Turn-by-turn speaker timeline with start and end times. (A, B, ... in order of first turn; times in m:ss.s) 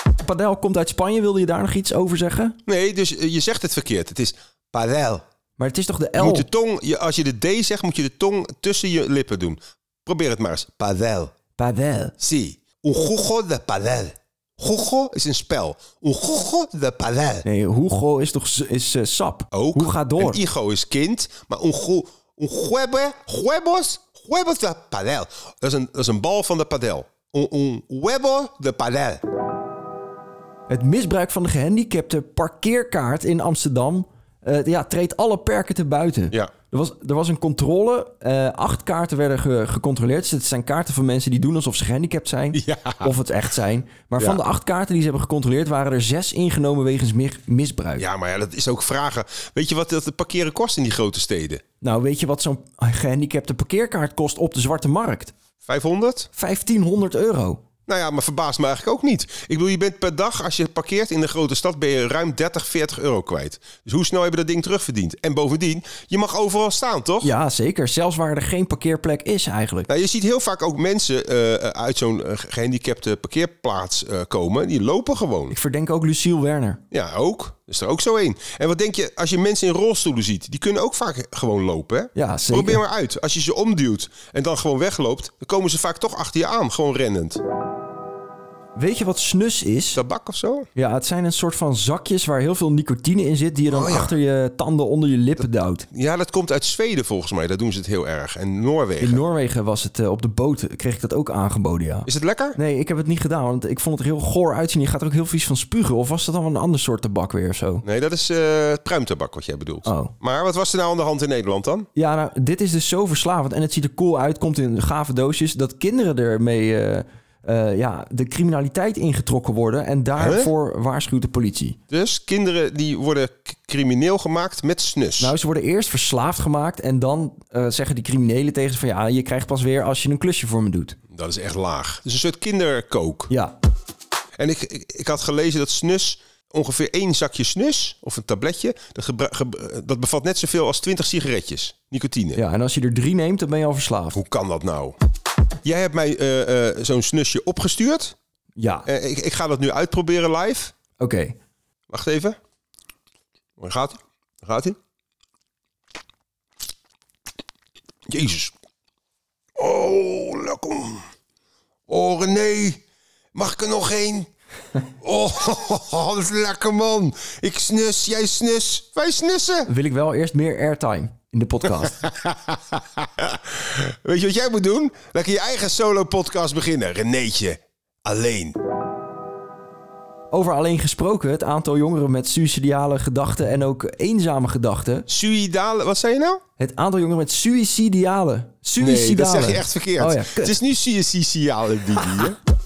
0:00.2-0:02.6 A
0:02.7-0:05.2 B
0:05.6-0:06.5 A
0:06.2-0:11.3 B
0:11.6-0:12.2 A
0:12.2-0:17.4 B
0:17.5-0:20.4 A
0:19.5-0:29.2 B
0:30.7-0:48.0 A
0:42.5-0:43.1 B
0:48.0-0:51.6 B
0:51.8-0:55.3 A
0:55.6-0:56.3 B
0:56.4-0:57.6 A
0:57.9-1:07.3 B
1:07.2-1:09.9 A
1:09.9-1:15.6 B
1:15.5-1:16.8 A
1:16.9-1:27.4 B
1:22.2-1:22.8 A
1:28.8-1:30.0 A
1:30.0-1:30.7 B
1:30.8-1:35.9 A
1:33.7-1:34.2 B
1:35.9-1:39.2 B
1:39.0-1:47.8 A
1:42.1-1:42.6 B
1:47.8-1:51.9 B
1:49.8-1:50.1 A
1:52.0-2:01.8 A
2:00.2-2:00.5 B
2:01.9-2:05.4 B
2:05.2-2:11.0 A
2:11.1-2:13.3 B
2:13.3-2:13.6 A
2:14.4-2:22.4 B
2:22.4-2:24.2 A
2:24.1-2:25.0 B
2:25.6-2:28.2 B
2:28.6-2:28.9 A
2:28.9-2:30.7 B
2:31.0-2:31.4 A
2:31.9-2:32.4 B
2:33.6-2:34.8 B
2:38.1-2:38.5 B
2:39.6-2:41.0 B
2:41.9-2:42.8 B
2:43.3-2:44.3 B
2:45.0-2:49.7 B
2:49.7-2:52.0 A
2:51.8-2:58.6 B
3:00.3-3:05.1 A
3:05.1-3:06.4 B
3:06.6-3:10.6 A
3:08.8-3:12.4 B